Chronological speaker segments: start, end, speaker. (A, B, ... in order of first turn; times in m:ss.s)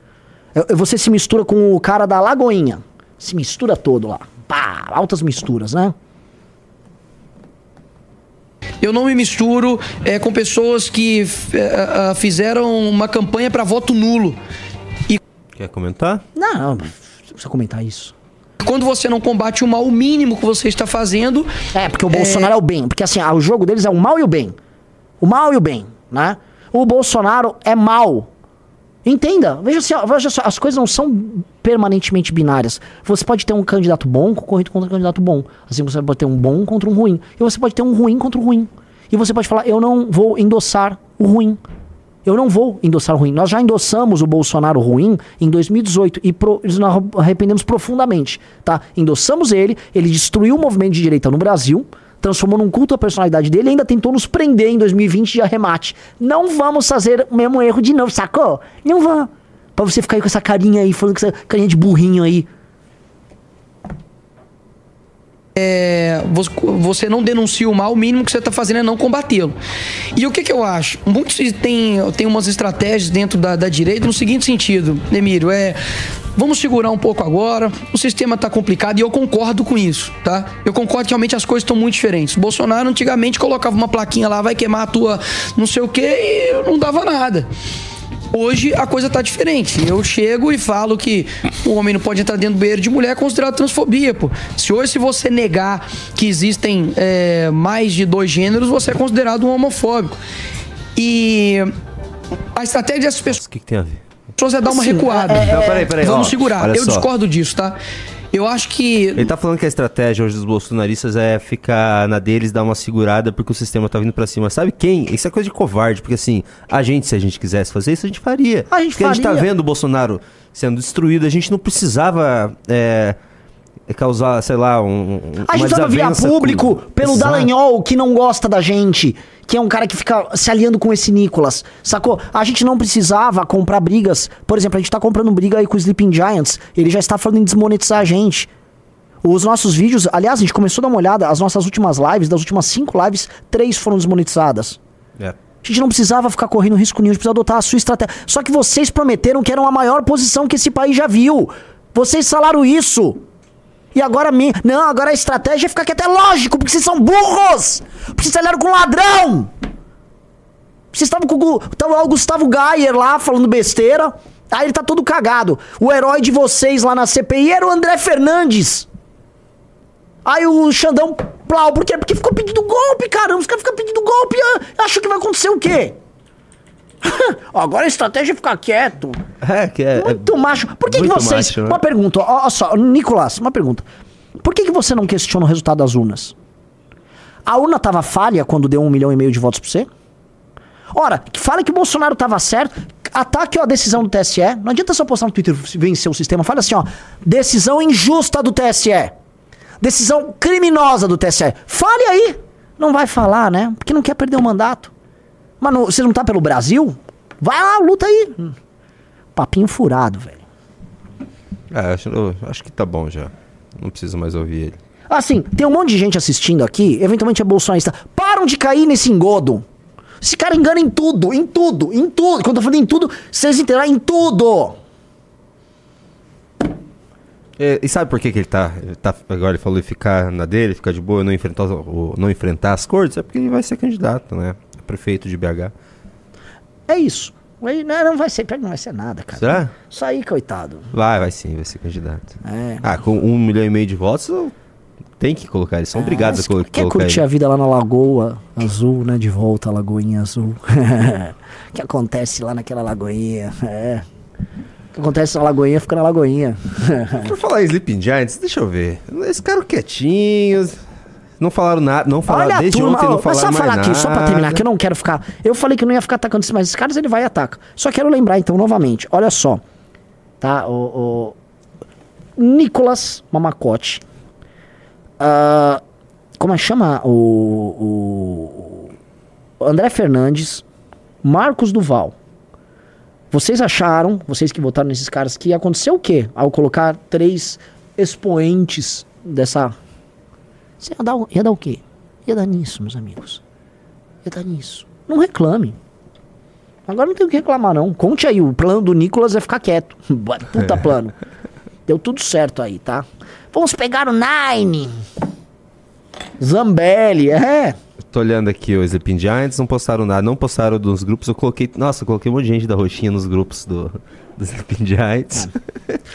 0:00.5-0:05.9 A
0:08.8-0:14.4 B
0:15.6-0:16.2 C
0:16.4-0:18.1 A
0:18.6-0:21.5 B
0:21.7-0:24.5 A
0:22.1-0:22.5 B
0:25.2-0:28.3 A
0:29.0-0:41.6 A
0:42.2-1:02.5 A
1:05.6-1:09.6 B
1:10.1-1:15.8 B
1:16.4-1:27.5 B
1:28.3-1:40.2 B
1:41.0-1:41.7 B
1:42.5-1:43.4 B
1:43.3-1:44.0 C
1:44.4-1:47.8 B
1:44.7-1:45.9 A
1:45.4-1:47.0 C
1:48.3-1:49.3 B
1:49.2-2:03.2 C
1:58.7-1:59.5 A
2:03.9-2:07.5 C
2:05.4-2:18.5 A
2:19.2-2:24.8 A
2:25.6-2:33.2 A
2:33.9-2:39.5 A
2:40.9-2:48.9 A
2:50.2-2:56.0 A
2:57.0-2:59.2 A
2:59.4-3:00.3 C
3:00.0-3:03.8 A
3:00.8-3:01.8 C
3:04.4-3:06.3 A
3:07.4-3:09.9 A
3:10.9-3:19.1 A
3:19.8-3:24.9 A
3:25.6-3:28.5 A
3:29.4-3:30.4 A
3:31.7-3:34.8 C
3:35.1-3:39.6 A
3:40.2-3:44.8 A
3:47.6-3:55.7 C
3:56.9-4:00.9 A
3:59.4-3:59.7 C
4:00.9-4:04.5 C
4:02.4-4:02.8 A
4:05.2-4:07.2 C
4:05.9-4:14.0 A
4:14.9-4:17.3 A
4:17.2-4:20.8 C
4:21.4-4:24.6 C
4:22.3-4:29.6 A
4:30.4-4:31.3 A
4:32.4-4:34.0 A
4:35.2-4:35.8 A
4:36.4-4:38.9 A
4:39.6-4:40.6 A
4:41.2-4:42.1 A
4:43.3-4:49.8 A
4:50.8-4:53.4 A
4:54.2-4:55.8 A
4:56.9-5:01.1 A
5:01.9-5:05.0 A
5:06.4-5:07.8 A
5:08.1-5:16.0 C